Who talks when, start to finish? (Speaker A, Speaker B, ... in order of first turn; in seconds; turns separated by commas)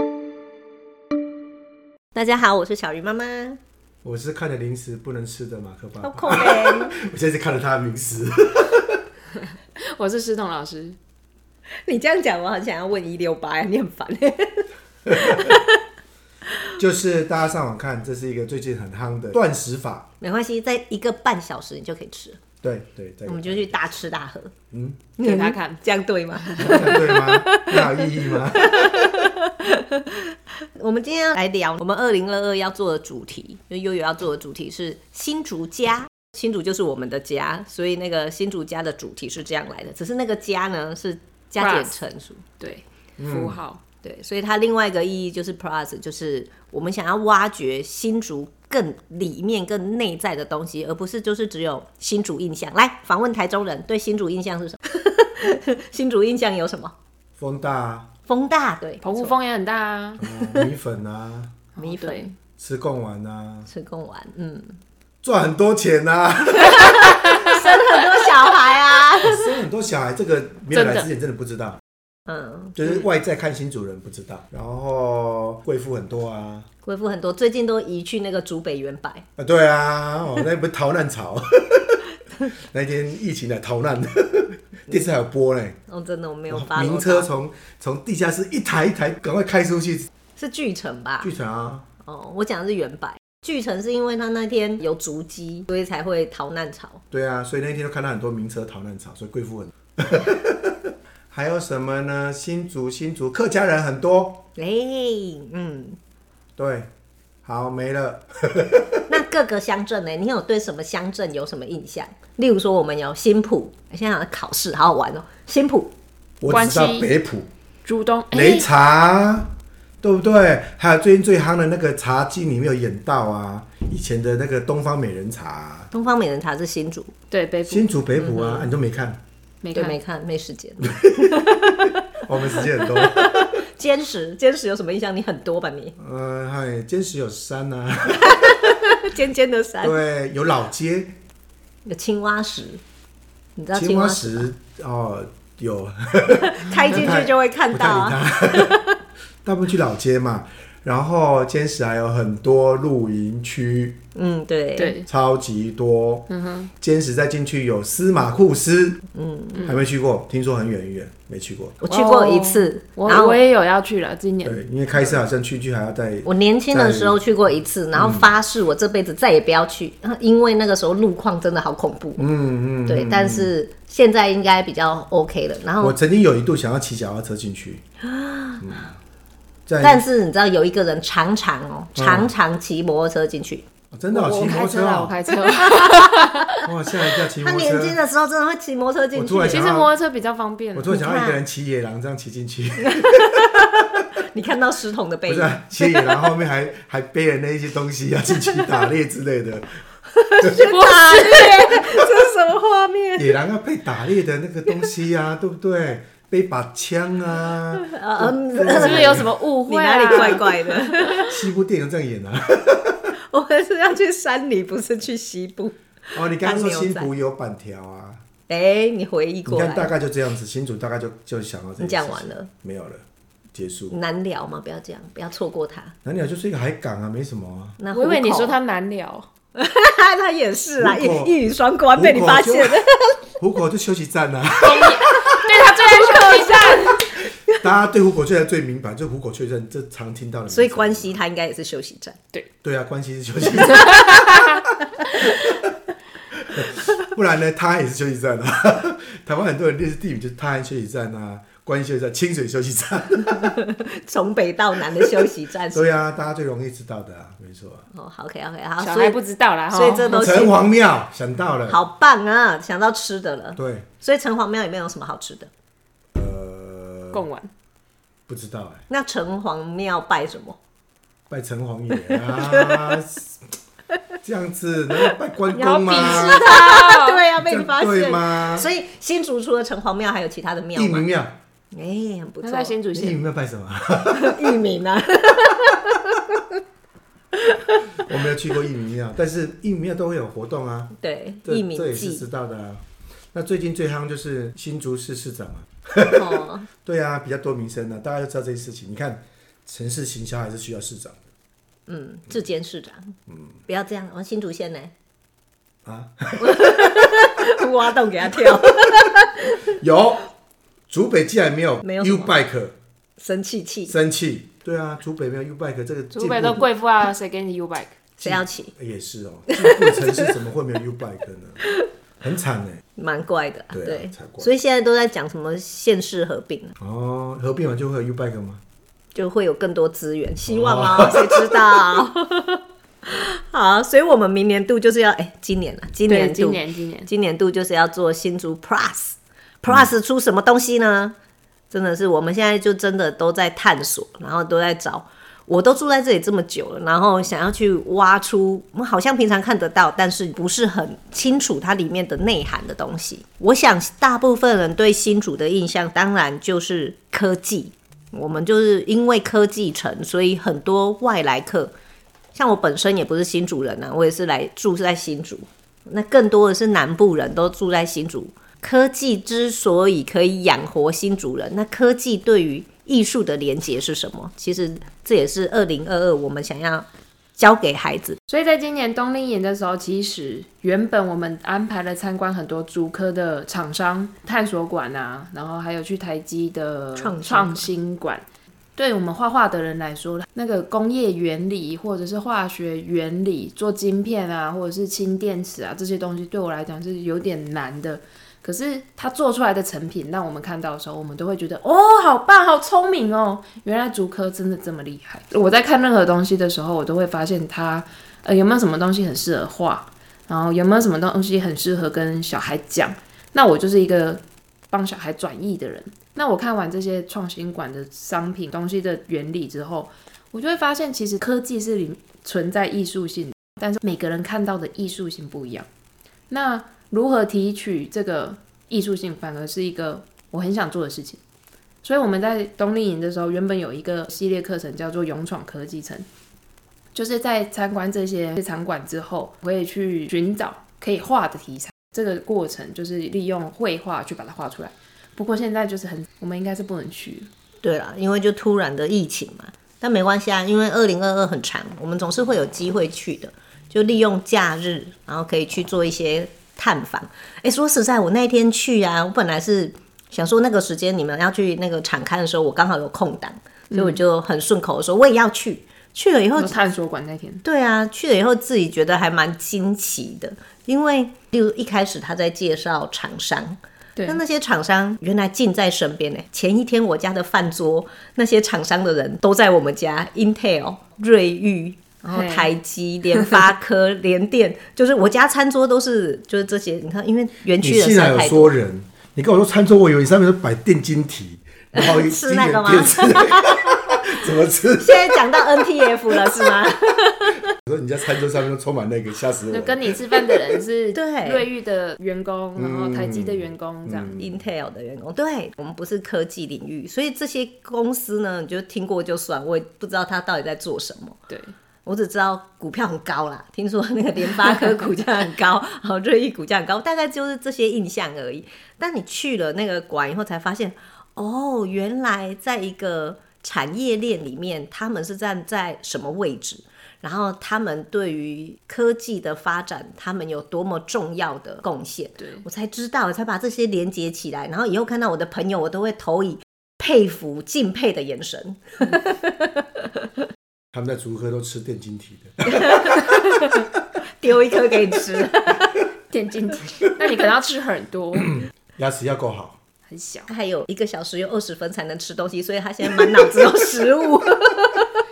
Speaker A: 2.1-3.6, Speaker B: 4.0-9.0, Speaker A: 6.0-7.0, Speaker C: 9.9-11.0, Speaker A: 11.8-15.8, Speaker B: 15.1-15.3, Speaker B: 16.8-20.1, Speaker A: 20.2-22.4, Speaker B: 22.6-24.0, Speaker A: 23.3-24.5, Speaker B: 24.7-25.1, Speaker A: 25.2-30.2, Speaker C: 25.2-25.8, Speaker B: 26.6-29.1, Speaker A: 30.8-42.4, Speaker C: 41.6-42.0, Speaker C: 42.6-43.8, Speaker B: 43.2-43.6, Speaker A: 44.0-56.9, Speaker B: 57.4-58.1, Speaker A: 58.3-59.3, Speaker C: 59.0-60.2, Speaker B: 60.2-61.6, Speaker A: 60.3-60.6, Speaker C: 61.8-62.3, Speaker A: 61.8-62.3, Speaker B: 62.6-63.7, Speaker A: 63.7-64.8, Speaker B: 65.2-67.3, Speaker A: 66.6-69.6, Speaker B: 69.2-71.8, Speaker C: 70.7-71.1, Speaker A: 72.3-73.0, Speaker B: 72.8-76.7, Speaker A: 76.8-79.2, Speaker B: 79.4-82.0, Speaker B: 82.7-85.8, Speaker A: 85.9-87.3, Speaker B: 86.5-90.1, Speaker A: 90.4-91.3, Speaker B: 91.2-91.8, Speaker A: 92.0-97.0, Speaker B: 97.1-104.4, Speaker A: 104.5-106.0, Speaker B: 106.6-106.9, Speaker B: 107.4-109.2, Speaker A: 109.1-115.9, Speaker B: 116.4-117.5, Speaker C: 116.5-117.1, Speaker C: 117.8-118.7, Speaker B: 118.3-119.5, Speaker B: 120.0-125.9, Speaker A: 125.9-127.1, Speaker C: 127.3-127.9, Speaker B: 127.7-129.2, Speaker A: 128.2-128.7, Speaker C: 129.6-130.0, Speaker A: 129.7-135.9, Speaker B: 130.9-131.3, Speaker B: 132.2-133.6, Speaker B: 136.0-138.7, Speaker A: 138.2-140.0, Speaker B: 139.8-141.2, Speaker A: 141.8-142.8, Speaker A: 143.6-144.5, Speaker B: 143.7-148.8, Speaker A: 146.4-148.9, Speaker B: 149.4-154.0, Speaker A: 154.1-155.0, Speaker C: 154.8-155.1, Speaker B: 155.0-159.0, Speaker C: 156.3-156.7, Speaker A: 159.1-159.7, Speaker B: 159.6-161.8, Speaker A: 161.8-163.4, Speaker C: 161.9-165.2, Speaker B: 164.4-167.2, Speaker A: 166.2-172.2, Speaker B: 167.9-168.3, Speaker B: 172.2-173.5, Speaker A: 172.8-176.0, Speaker B: 175.8-177.8, Speaker A: 178.1-178.6, Speaker B: 178.6-178.9, Speaker B: 179.7-180.0, Speaker A: 179.8-183.6, Speaker B: 181.9-182.3, Speaker B: 183.9-185.2, Speaker C: 184.1-186.6, Speaker A: 185.5-186.6, Speaker B: 186.6-188.0, Speaker A: 187.4-189.7, Speaker B: 189.1-189.9, Speaker C: 189.5-191.1, Speaker B: 190.7-193.6, Speaker A: 190.9-191.4, Speaker A: 192.8-196.1, Speaker B: 195.2-199.8, Speaker A: 200.1-203.3, Speaker C: 200.6-201.6, Speaker B: 203.1-209.3, Speaker A: 207.8-211.4, Speaker C: 208.7-210.9, Speaker B: 211.1-213.1, Speaker A: 213.3-217.1, Speaker B: 216.1-218.2, Speaker A: 218.5-219.9, Speaker B: 219.4-224.0, Speaker A: 221.8-222.5, Speaker A: 223.9-225.9, Speaker B: 226.0-227.8, Speaker A: 227.8-228.6, Speaker C: 227.9-229.3, Speaker A: 229.5-233.2, Speaker B: 230.8-231.4, Speaker B: 231.9-232.8, Speaker B: 233.4-235.3, Speaker C: 234.6-237.1, Speaker A: 235.1-237.0, Speaker B: 237.6-241.2, Speaker A: 240.5-242.2, Speaker B: 242.6-244.7, Speaker C: 243.8-244.6, Speaker B: 246.4-253.5, Speaker A: 253.3-255.9, Speaker B: 255.0-257.8, Speaker A: 257.9-259.2, Speaker C: 258.8-260.5, Speaker A: 259.7-260.7, Speaker B: 260.1-261.8, Speaker A: 261.7-265.5, Speaker B: 263.5-263.9, Speaker B: 266.1-267.2, Speaker C: 267.1-267.5, Speaker B: 268.3-268.8, Speaker A: 268.9-270.6, Speaker B: 271.3-273.4, Speaker A: 272.1-273.0, Speaker B: 274.2-276.5, Speaker C: 275.5-277.2, Speaker A: 275.9-281.1, Speaker B: 277.4-278.7, Speaker B: 280.7-281.4, Speaker A: 281.7-282.7, Speaker C: 282.4-283.2, Speaker B: 282.9-284.6, Speaker A: 284.1-286.4, Speaker A: 287.4-288.1, Speaker B: 288.1-292.8, Speaker A: 291.0-292.2, Speaker B: 293.3-301.2, Speaker A: 296.1-296.7, Speaker A: 301.9-303.1, Speaker A: 303.7-304.9, Speaker B: 305.8-306.9, Speaker A: 306.4-309.6, Speaker B: 309.6-310.3, Speaker B: 310.9-312.7, Speaker A: 311.8-312.3, Speaker A: 313.2-313.9, Speaker B: 313.9-316.7, Speaker C: 316.1-317.9, Speaker B: 318.2-321.6, Speaker A: 318.2-318.7, Speaker A: 319.5-320.2, Speaker B: 322.2-322.8, Speaker A: 323.0-326.7, Speaker B: 323.7-324.5, Speaker B: 326.8-328.6, Speaker A: 329.1-341.1, Speaker B: 330.5-331.6, Speaker C: 336.1-337.1, Speaker A: 341.7-361.7, Speaker A: 362.3-376.9, Speaker A: 377.4-378.2, Speaker C: 378.3-388.2, Speaker A: 387.0-387.7, Speaker C: 388.8-425.7, Speaker C: 426.3-431.2, Speaker C: 431.8-436.1, Speaker C: 436.9-447.3, Speaker A: 447.6-466.6, Speaker C: 463.7-464.0, Speaker C: 466.4-467.4, Speaker A: 467.4-488.5, Speaker C: 482.1-482.5, Speaker B: 487.6-495.2, Speaker A: 491.7-493.7, Speaker A: 494.8-497.4, Speaker B: 497.5-500.0, Speaker C: 499.5-504.1, Speaker A: 500.9-501.5, Speaker B: 502.6-504.4, Speaker A: 504.1-511.2, Speaker C: 511.3-511.5, Speaker A: 511.9-539.8, Speaker B: 540.7-543.8, Speaker A: 542.5-543.6, Speaker A: 544.2-545.8, Speaker C: 546.1-548.3, Speaker B: 548.1-549.6, Speaker C: 549.8-550.3, Speaker A: 550.3-555.0